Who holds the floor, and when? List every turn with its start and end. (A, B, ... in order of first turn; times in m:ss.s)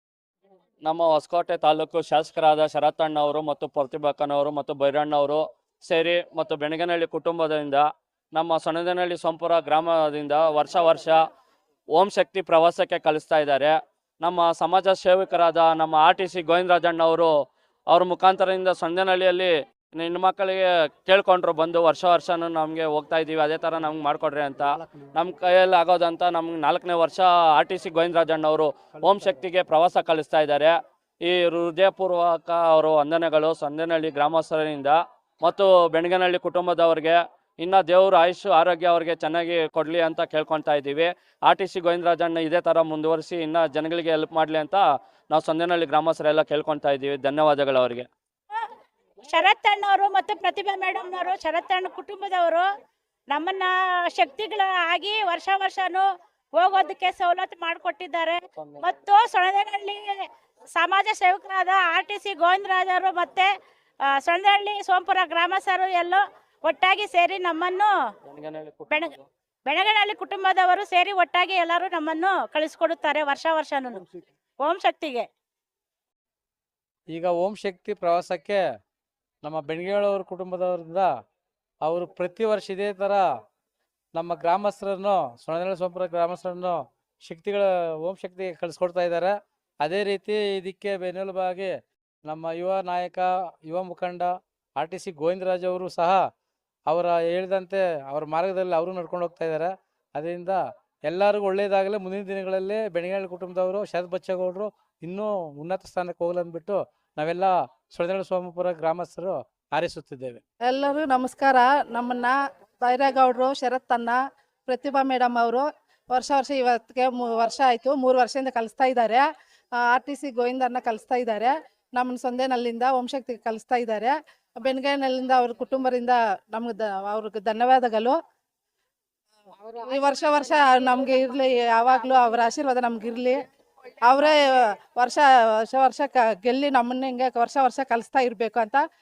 0:00.8-0:11.2 A
0:11.9-0:17.3 A
0:17.9-0:48.1 A
0:49.3-0:52.6 B
0:53.3-0:53.6 B
0:54.2-0:56.0 B
0:56.6-0:58.3 B
0:58.8-1:00.0 B
1:00.8-1:03.4 B
1:04.3-1:06.1 B
1:06.7-1:07.8 B
1:08.3-1:09.2 A
1:09.7-1:14.0 B
1:14.6-1:15.2 B
1:17.1-1:18.7 C
1:19.4-1:21.2 C
1:21.8-1:23.4 C
1:24.1-1:36.3 C
1:36.8-1:50.4 C
1:50.7-1:59.2 D
1:59.8-2:08.2 D
2:09.8-2:13.4 D
2:14.0-2:14.4 D
2:15.0-2:18.8 D